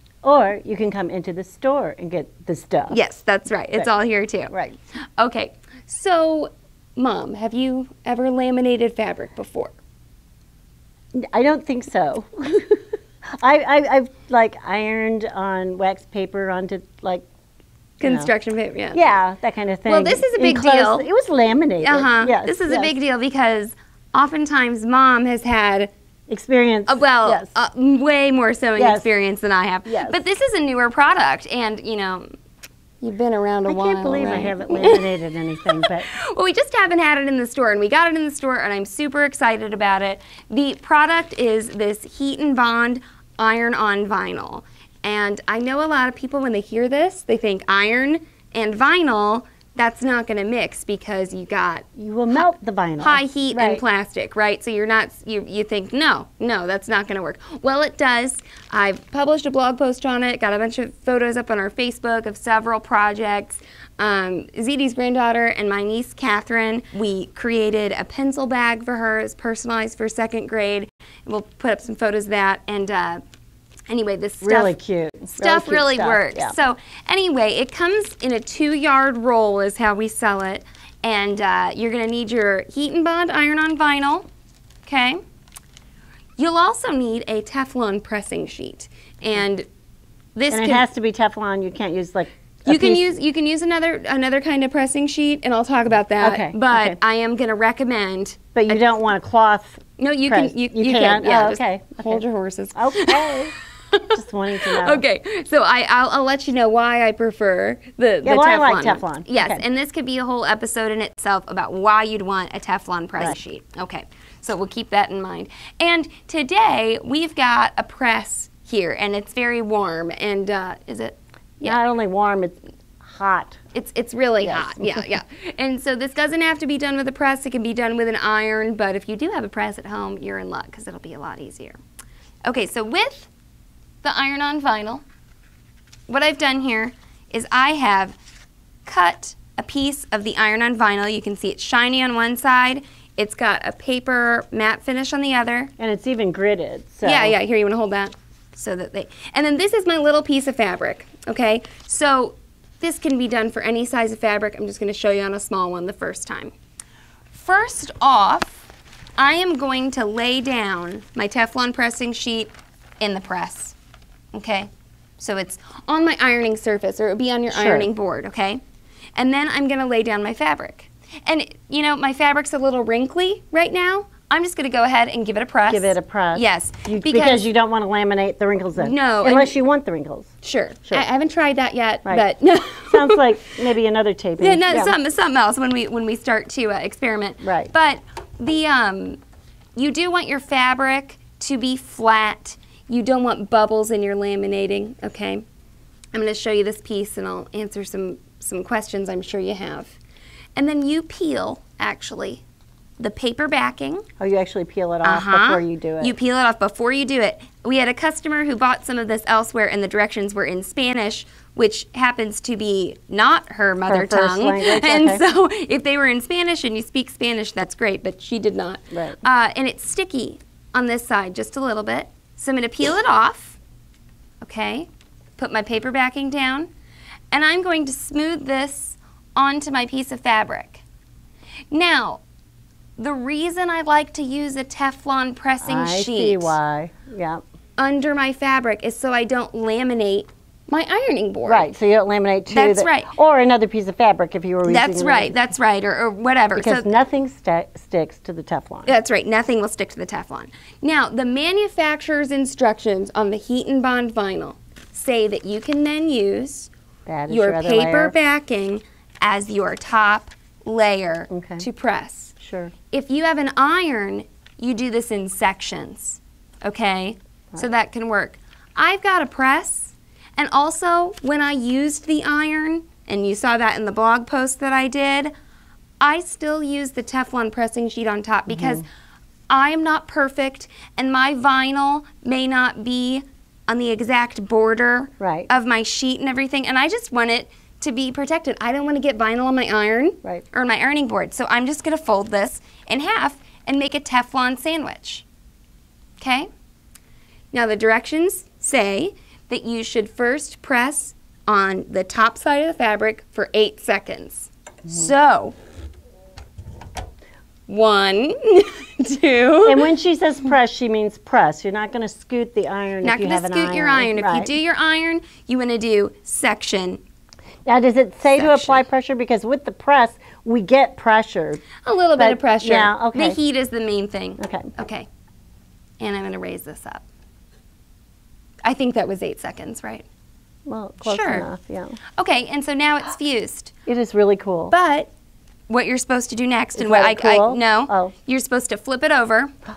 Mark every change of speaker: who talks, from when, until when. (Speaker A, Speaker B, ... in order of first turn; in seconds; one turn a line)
Speaker A: 0.2-3.0
Speaker B: 2.9-4.5
Speaker A: 4.5-4.8
Speaker B: 5.2-9.8
Speaker A: 11.1-17.3
Speaker B: 18.0-19.1
Speaker A: 18.0-18.3
Speaker A: 18.9-22.9
Speaker B: 19.9-21.1
Speaker B: 21.8-25.9
Speaker A: 26.3-27.5
Speaker B: 26.9-32.3
Speaker A: 28.8-29.1
Speaker A: 29.9-30.2
Speaker B: 33.0-35.1
Speaker A: 33.7-36.1
Speaker B: 35.6-51.9
Speaker A: 52.0-53.8
Speaker B: 53.0-73.2
Speaker B: 73.9-74.7
Speaker A: 74.4-76.5
Speaker B: 75.4-84.3
Speaker B: 84.8-85.2
Speaker B: 86.4-89.7
Speaker B: 90.3-90.8
Speaker A: 90.5-93.2
Speaker B: 92.7-98.8
Speaker A: 96.2-97.0
Speaker A: 98.5-102.2
Speaker B: 100.0-103.4
Speaker A: 102.7-105.0
Speaker B: 103.9-121.8
Speaker A: 108.2-109.6
Speaker A: 121.6-123.6
Speaker B: 123.7-131.8
Speaker A: 124.4-125.1
Speaker B: 132.4-133.3
Speaker B: 134.0-135.0
Speaker B: 136.1-138.2
Speaker B: 138.8-145.7
Speaker A: 145.8-147.3
Speaker B: 147.0-156.5
Speaker B: 157.3-158.7
Speaker B: 159.2-163.7
Speaker B: 164.3-168.6
Speaker A: 167.5-167.9
Speaker B: 169.2-177.5
Speaker A: 175.7-180.3
Speaker B: 178.8-179.6
Speaker B: 180.4-183.6
Speaker A: 182.8-184.9
Speaker B: 184.4-189.2
Speaker A: 187.4-187.7
Speaker B: 189.8-195.4
Speaker B: 196.1-199.9
Speaker B: 200.6-202.4
Speaker B: 203.0-204.1
Speaker A: 204.2-206.1
Speaker B: 205.0-223.6
Speaker A: 213.9-215.2
Speaker A: 218.9-219.2
Speaker B: 224.4-226.7
Speaker B: 227.3-230.8
Speaker B: 231.7-232.2
Speaker B: 233.0-236.6
Speaker A: 235.6-237.4
Speaker B: 237.8-241.8
Speaker A: 241.4-245.4
Speaker B: 242.5-243.1
Speaker B: 244.7-246.9
Speaker A: 246.5-248.9
Speaker B: 248.8-256.7
Speaker A: 257.1-258.1
Speaker B: 257.3-262.3
Speaker A: 261.3-261.6
Speaker A: 262.4-262.7
Speaker B: 262.9-275.3
Speaker B: 276.0-278.8
Speaker A: 278.5-278.8
Speaker B: 279.5-295.2
Speaker A: 285.2-285.5
Speaker B: 296.2-296.5
Speaker B: 297.5-305.6
Speaker B: 307.7-309.9
Speaker A: 309.6-314.5
Speaker B: 313.0-317.0
Speaker A: 317.6-321.6
Speaker B: 318.3-318.8
Speaker B: 321.8-325.1
Speaker A: 322.2-323.4
Speaker A: 324.4-324.7
Speaker B: 326.0-327.1
Speaker B: 328.6-330.0
Speaker A: 330.7-332.0
Speaker B: 331.0-331.5
Speaker B: 332.2-333.7
Speaker A: 333.9-334.7
Speaker B: 334.7-335.1
Speaker B: 335.7-339.5
Speaker A: 336.8-338.1